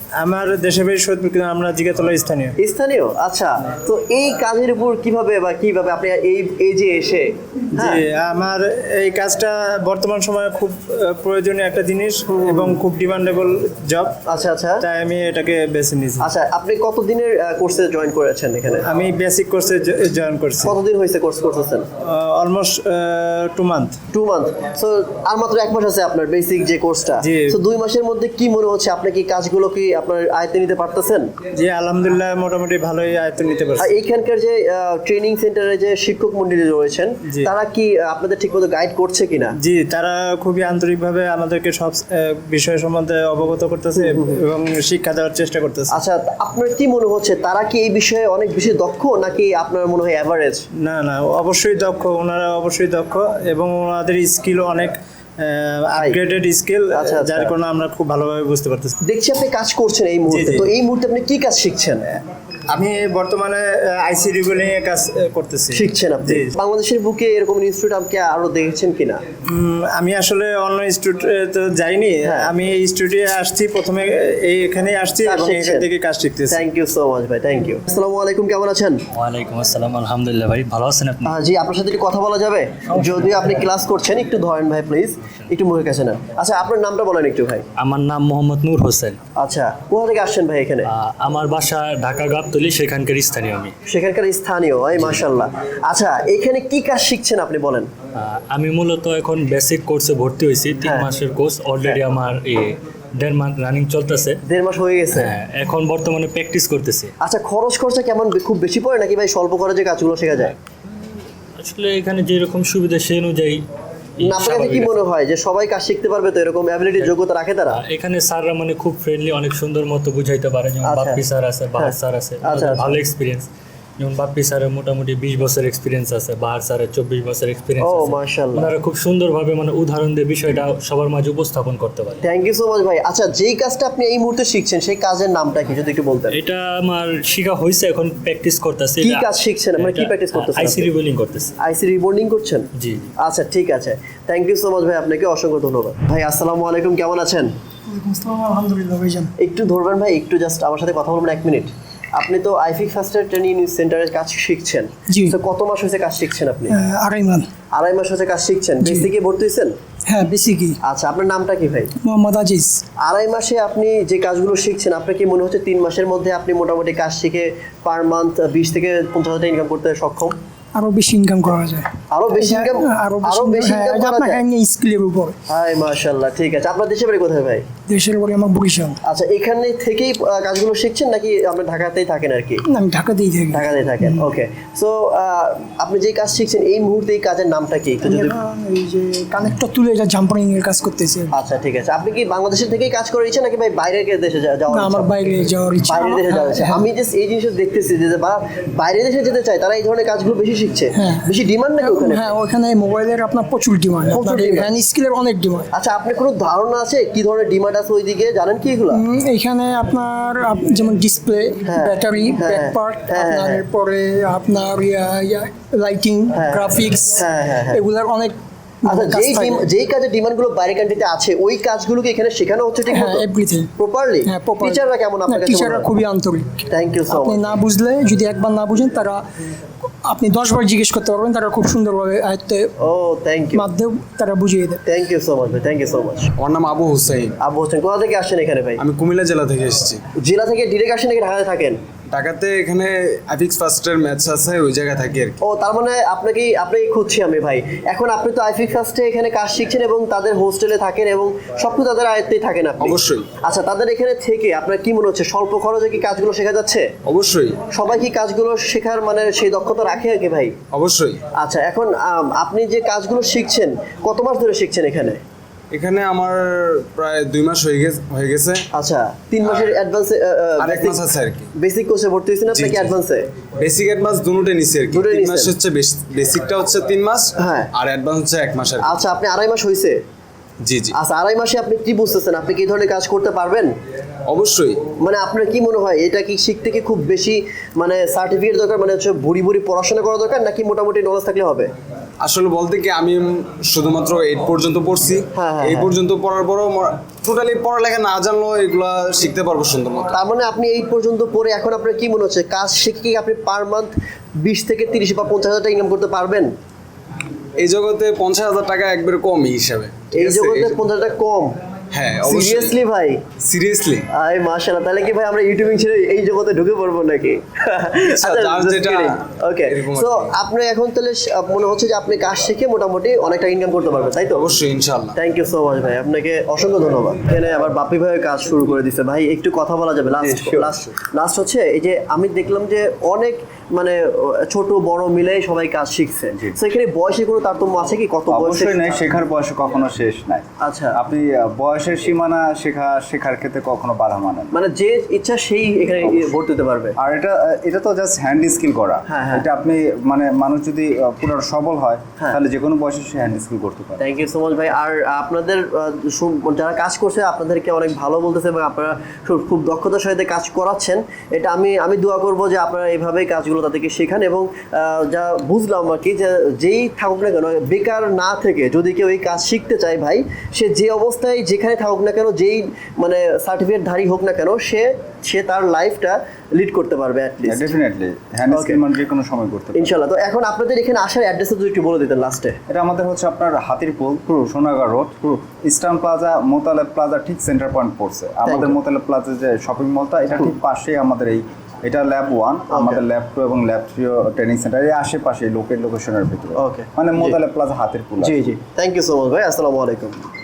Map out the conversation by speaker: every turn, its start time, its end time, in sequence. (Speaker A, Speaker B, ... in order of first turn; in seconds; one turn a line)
Speaker A: 0.2-2.6
Speaker B: 2.6-8.0
Speaker A: 7.8-14.2
Speaker B: 12.3-12.8
Speaker B: 14.3-14.8
Speaker A: 14.8-16.3
Speaker B: 16.2-18.8
Speaker A: 18.9-20.8
Speaker B: 20.6-21.9
Speaker A: 22.0-24.0
Speaker B: 24.1-31.3
Speaker A: 27.2-27.6
Speaker A: 31.5-33.9
Speaker B: 33.8-39.5
Speaker A: 37.3-37.5
Speaker A: 39.6-46.0
Speaker B: 44.0-44.4
Speaker B: 45.9-50.7
Speaker A: 50.8-59.0
Speaker B: 56.9-57.5
Speaker B: 59.0-62.0
Speaker A: 60.3-60.7
Speaker A: 62.7-66.5
Speaker B: 65.7-69.2
Speaker A: 69.5-76.6
Speaker B: 72.2-72.5
Speaker B: 75.2-75.9
Speaker B: 76.5-79.0
Speaker C: 79.1-81.4
Speaker B: 81.2-87.7
Speaker C: 82.9-83.4
Speaker C: 87.8-89.2
Speaker B: 89.4-90.9
Speaker C: 90.8-93.7
Speaker B: 93.9-97.9
Speaker C: 94.9-95.3
Speaker C: 98.2-104.4
Speaker B: 100.8-101.1
Speaker B: 104.5-105.3
Speaker C: 105.1-107.1
Speaker B: 107.2-110.6
Speaker C: 111.6-113.7
Speaker C: 114.2-115.0
Speaker B: 114.2-117.8
Speaker C: 117.7-132.3
Speaker B: 120.8-122.9
Speaker B: 127.8-128.7
Speaker B: 132.2-136.4
Speaker C: 136.3-141.5
Speaker B: 139.0-140.9
Speaker B: 141.6-142.7
Speaker C: 142.8-143.1
Speaker B: 143.2-147.5
Speaker D: 147.9-149.3
Speaker B: 149.4-156.8
Speaker D: 155.1-155.4
Speaker D: 156.7-157.5
Speaker B: 157.7-159.7
Speaker D: 158.8-159.1
Speaker D: 160.1-160.8
Speaker B: 160.8-161.9
Speaker D: 162.0-162.8
Speaker B: 163.0-170.3
Speaker D: 170.8-175.4
Speaker B: 172.1-174.4
Speaker B: 175.5-177.7
Speaker D: 177.9-179.0
Speaker B: 179.1-182.6
Speaker D: 182.7-184.3
Speaker B: 183.5-188.4
Speaker D: 188.1-191.3
Speaker B: 191.3-195.1
Speaker D: 194.7-196.8
Speaker B: 195.9-202.3
Speaker D: 200.9-205.7
Speaker B: 204.1-204.7
Speaker B: 205.7-209.0
Speaker D: 208.9-219.7
Speaker B: 211.7-213.7
Speaker B: 216.3-217.8
Speaker B: 218.9-225.9
Speaker D: 222.9-223.7
Speaker D: 224.2-229.2
Speaker B: 226.7-227.6
Speaker D: 230.1-232.7
Speaker B: 232.8-233.7
Speaker D: 233.5-234.8
Speaker B: 234.9-236.3
Speaker E: 236.4-237.4
Speaker B: 237.4-238.8
Speaker E: 238.8-240.0
Speaker B: 240.2-241.8
Speaker E: 242.1-245.4
Speaker B: 245.4-256.9
Speaker E: 252.8-253.3
Speaker E: 257.1-257.6
Speaker B: 257.7-260.6
Speaker E: 260.7-261.2
Speaker B: 261.4-265.2
Speaker E: 265.7-268.6
Speaker B: 268.7-273.2
Speaker E: 270.6-271.5
Speaker E: 272.5-272.9
Speaker E: 273.6-279.0
Speaker B: 274.9-275.6
Speaker B: 277.4-277.7
Speaker B: 278.8-280.0
Speaker E: 280.6-281.0
Speaker B: 280.9-283.7
Speaker E: 284.3-284.8
Speaker B: 285.0-291.7
Speaker E: 292.2-300.2
Speaker B: 295.4-295.9
Speaker B: 300.1-306.5
Speaker E: 307.6-310.8
Speaker B: 310.1-311.6
Speaker E: 311.9-312.8
Speaker B: 312.2-313.2
Speaker E: 313.4-314.1
Speaker B: 314.1-324.5
Speaker E: 318.1-320.3
Speaker E: 324.2-325.2
Speaker B: 325.2-338.9
Speaker F: 330.2-330.7
Speaker F: 336.3-336.6
Speaker F: 338.3-344.5
Speaker B: 340.6-341.0
Speaker B: 344.5-347.0
Speaker F: 346.0-346.4
Speaker F: 347.0-354.0
Speaker B: 349.1-349.5
Speaker B: 354.0-377.7
Speaker F: 377.5-379.9
Speaker B: 378.5-378.8
Speaker B: 379.8-382.6
Speaker F: 382.7-398.5
Speaker B: 388.5-388.7
Speaker B: 392.7-393.0
Speaker B: 396.6-397.4
Speaker B: 398.2-400.2